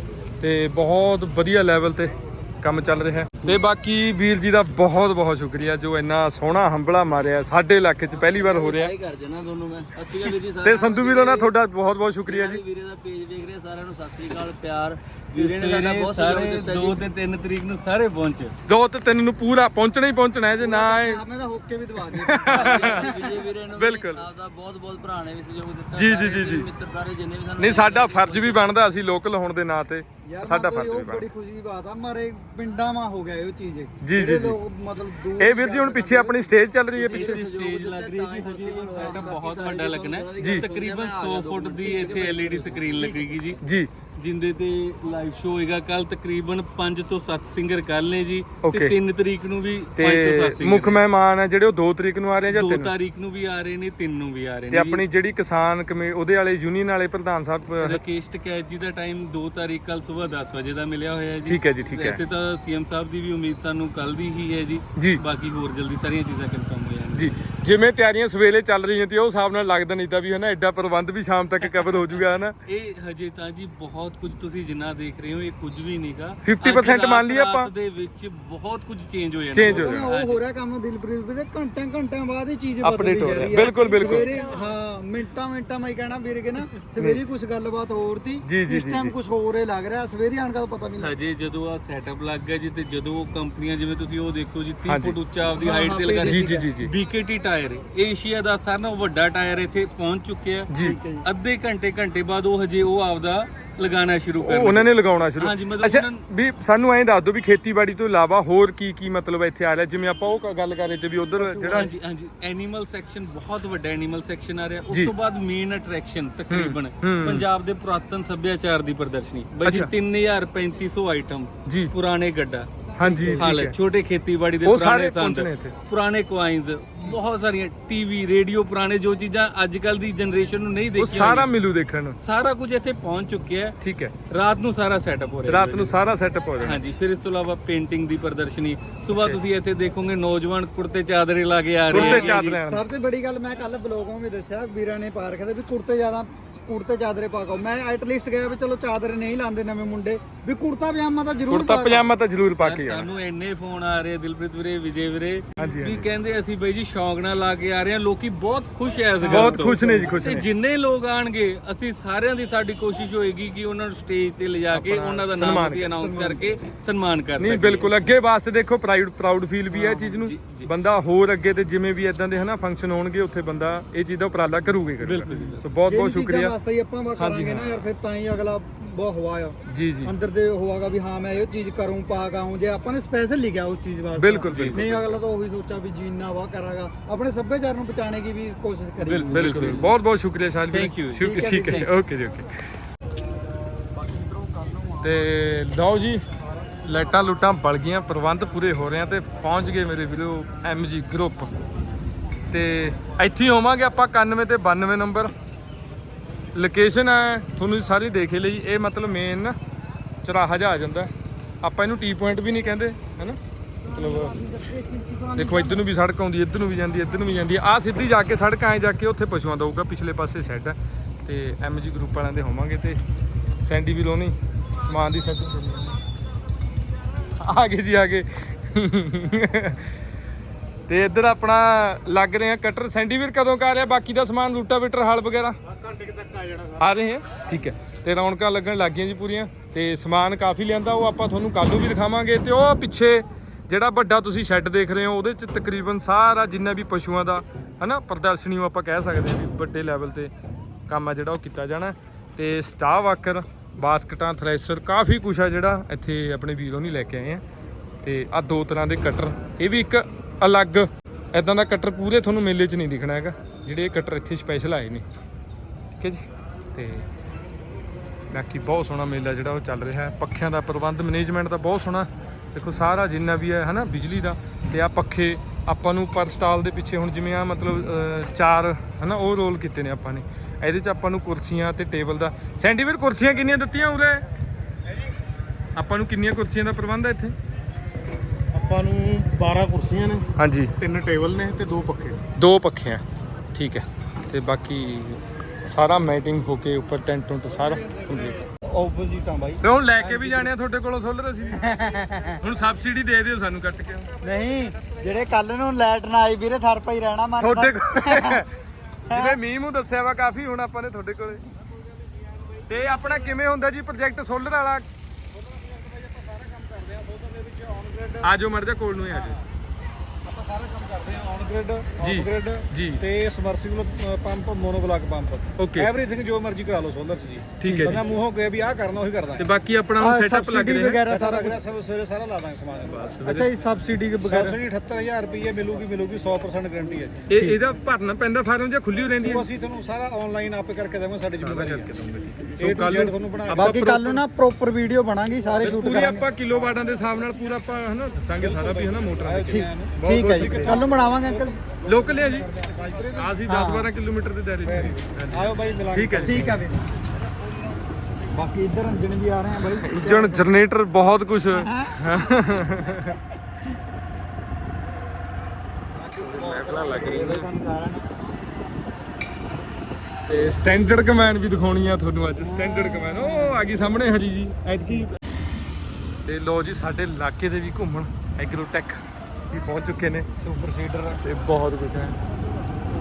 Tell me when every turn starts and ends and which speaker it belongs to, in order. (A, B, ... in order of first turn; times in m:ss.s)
0:00.4-0:08.9 A
0:08.1-0:11.5 B
0:10.6-0:12.6 A
0:12.2-0:17.0 B
0:15.3-0:18.5 C
0:18.6-0:21.2 A
0:20.6-0:23.5 D
0:22.1-0:23.2 A
0:22.5-0:28.7 B
0:23.8-0:24.2 A
0:25.9-0:26.7 A
0:27.6-0:31.3 A
0:30.2-0:36.6 D
0:34.0-0:34.6 A
0:35.4-0:37.4 A
0:36.9-0:43.5 B
0:37.1-0:43.6 C
0:39.0-0:39.3 D
0:40.4-0:40.7 A
0:43.6-0:43.9 A
0:44.2-0:51.0 C
0:48.6-0:48.9 A
0:50.0-0:52.9 A
0:52.5-0:55.0 C
0:54.7-0:58.0 A
0:57.8-1:07.4 C
1:01.4-1:02.2 A
1:05.0-1:05.2 A
1:07.1-1:12.5 A
1:11.6-1:12.0 C
1:12.6-1:20.4 C
1:16.4-1:17.7 A
1:19.5-1:20.1 A
1:19.6-1:31.1 D
1:22.8-1:24.3 A
1:23.7-1:24.6 C
1:27.0-1:27.2 A
1:28.4-1:29.1 A
1:31.0-1:40.7 C
1:34.8-1:35.2 A
1:35.6-1:36.6 D
1:36.2-1:36.9 A
1:40.7-1:41.0 A
1:40.8-1:41.2 D
1:41.2-1:46.2 C
1:44.4-1:51.9 A
1:51.6-1:51.9 D
1:51.7-2:11.5 C
1:56.5-1:57.5 A
1:59.6-1:59.9 A
2:01.6-2:01.9 A
2:03.0-2:03.8 A
2:03.0-2:03.4 D
2:04.6-2:05.7 A
2:11.0-2:12.2 A
2:12.2-2:13.8 C
2:13.8-2:14.1 A
2:14.3-2:16.0 C
2:15.5-2:16.8 A
2:16.6-2:22.6 C
2:19.1-2:19.4 A
2:21.9-2:22.8 A
2:21.9-2:32.1 D
2:31.5-2:33.1 A
2:32.5-2:47.9 C
2:35.6-2:36.1 A
2:39.2-2:40.4 D
2:39.3-2:40.5 A
2:44.7-2:45.9 A
2:45.9-2:46.4 D
2:47.4-2:56.5 A
2:49.7-2:50.7 C
2:55.0-2:55.6 C
2:55.9-3:09.9 D
2:57.2-2:57.8 A
2:59.7-3:00.1 A
3:04.2-3:05.2 A
3:04.5-3:04.9 C
3:09.0-3:09.9 C
3:09.3-3:12.5 A
3:10.7-3:11.8 C
3:11.2-3:11.9 D
3:13.9-3:15.1 D
3:15.0-3:16.2 A
3:16.8-3:21.5 A
3:22.5-3:25.3 A
3:26.5-3:29.5 A
3:30.2-3:31.1 A
3:31.6-3:33.4 A
3:33.9-3:35.8 D
3:33.9-3:34.3 A
3:35.4-3:43.0 A
3:43.6-3:46.0 A
3:47.4-3:49.9 A
3:50.9-3:55.5 A
3:56.1-3:56.7 E
3:56.8-4:10.3 A
4:10.9-4:17.4 A
4:18.0-4:25.0 A
4:26.0-4:27.0 A
4:28.3-4:44.2 A
4:45.8-4:47.3 A
4:48.5-4:50.3 E
4:50.4-4:50.7 A
4:50.8-4:52.2 E
4:52.3-4:53.0 A
4:53.5-4:58.4 A
4:58.6-5:00.5 D
4:59.6-5:01.7 A
5:01.5-5:02.4 D
5:02.4-5:04.2 A
5:04.2-5:08.4 D
5:07.4-5:08.5 A
5:09.1-5:11.4 A
5:09.1-5:09.4 D
5:12.7-5:14.8 A
5:15.8-5:17.9 E
5:15.8-5:18.3 D
5:18.2-5:19.4 A
5:20.3-5:22.7 D
5:20.5-5:21.4 E
5:22.0-5:23.0 A
5:23.0-5:29.4 E
5:25.6-5:25.9 A
5:27.6-5:28.0 A
5:27.6-5:28.0 D
5:29.4-5:31.0 A
5:30.0-5:31.6 D
5:31.0-5:33.4 E
5:33.2-5:34.6 D
5:34.2-5:37.3 E
5:37.3-5:39.5 A
5:39.2-5:41.9 E
5:41.4-5:44.2 A
5:42.6-5:43.7 E
5:43.0-5:46.2 D
5:45.6-5:50.8 A
5:48.4-5:53.3 E
5:49.4-5:51.6 D
5:51.8-5:52.5 A
5:53.1-5:56.6 A
5:53.4-5:53.9 D
5:54.6-5:56.5 E
5:56.2-5:57.0 D
5:58.3-6:00.5 D
5:59.8-6:03.2 A
6:01.5-6:02.0 D
6:06.0-6:08.0 D
6:06.1-6:07.5 A
6:10.3-6:15.2 A
6:12.4-6:13.7 D
6:16.2-6:20.3 A
6:20.4-6:21.2 D
6:21.2-6:22.2 A